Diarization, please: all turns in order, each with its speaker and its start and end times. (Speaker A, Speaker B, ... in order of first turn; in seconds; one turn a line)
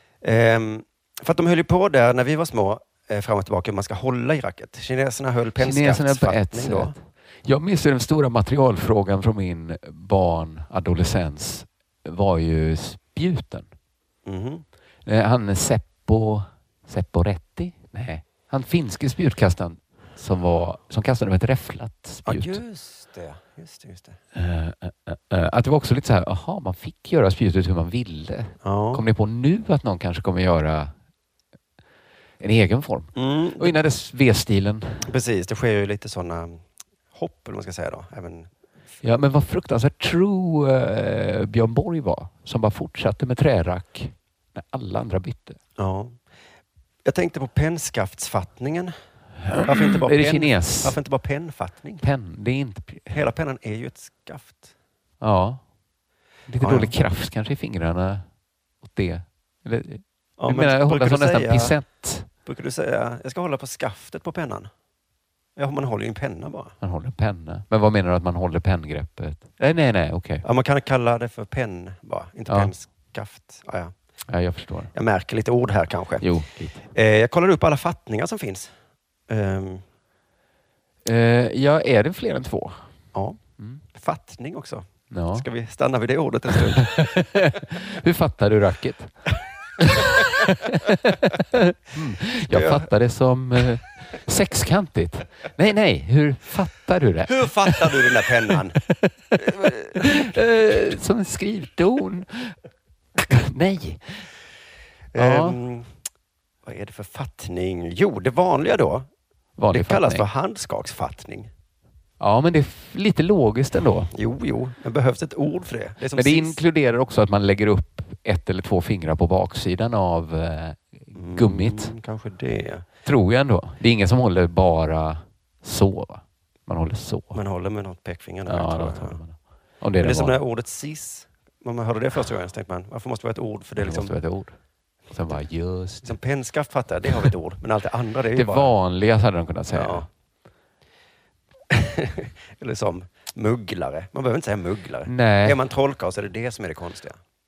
Speaker A: 0.2-7.0
Speaker B: 5.6-13.7
Speaker A: 14.2-14.7
Speaker B: 15.1-22.6
Speaker A: 22.3-24.2
Speaker B: 24.4-30.9
Speaker A: 28.6-29.0
Speaker B: 32.4-35.0
Speaker A: 33.1-33.8
Speaker A: 35.0-38.5
Speaker B: 39.0-45.6
Speaker A: 45.8-46.2
Speaker A: 47.0-48.9
Speaker B: 49.5-51.0
Speaker A: 49.5-52.0
Speaker B: 52.0-53.1
Speaker A: 53.1-54.7
Speaker B: 55.2-55.6
Speaker B: 56.5-58.2
Speaker A: 56.6-56.9
Speaker B: 58.8-62.3
Speaker A: 60.4-61.8
Speaker A: 62.5-64.7
Speaker A: 65.6-66.7
Speaker B: 66.8-70.4
Speaker A: 70.4-73.9
Speaker B: 72.5-72.7
Speaker B: 74.3-74.9
Speaker A: 74.9-76.3
Speaker B: 76.2-76.9
Speaker A: 76.9-78.7
Speaker A: 79.3-79.8
Speaker B: 81.0-82.9
Speaker A: 83.1-83.4
Speaker B: 83.6-83.8
Speaker A: 83.9-87.1
Speaker B: 85.1-85.5
Speaker B: 86.8-89.2
Speaker B: 89.8-98.1
Speaker A: 92.5-92.9
Speaker A: 97.3-98.8
Speaker A: 99.4-100.3
Speaker B: 99.6-102.5
Speaker B: 103.2-104.2
Speaker A: 105.1-105.9
Speaker B: 105.2-105.6
Speaker A: 106.6-109.1
Speaker B: 109.6-110.2
Speaker A: 109.7-111.5
Speaker B: 112.2-114.1
Speaker A: 114.1-116.6
Speaker B: 116.2-121.9
Speaker A: 121.2-122.9
Speaker B: 123.0-127.4
Speaker A: 127.3-129.2
Speaker B: 128.5-130.4
Speaker A: 130.0-134.2
Speaker B: 133.8-134.6
Speaker B: 135.1-136.2
Speaker A: 136.0-138.7
Speaker B: 138.3-140.1
Speaker A: 139.7-140.1
Speaker A: 141.7-147.2
Speaker B: 145.1-145.6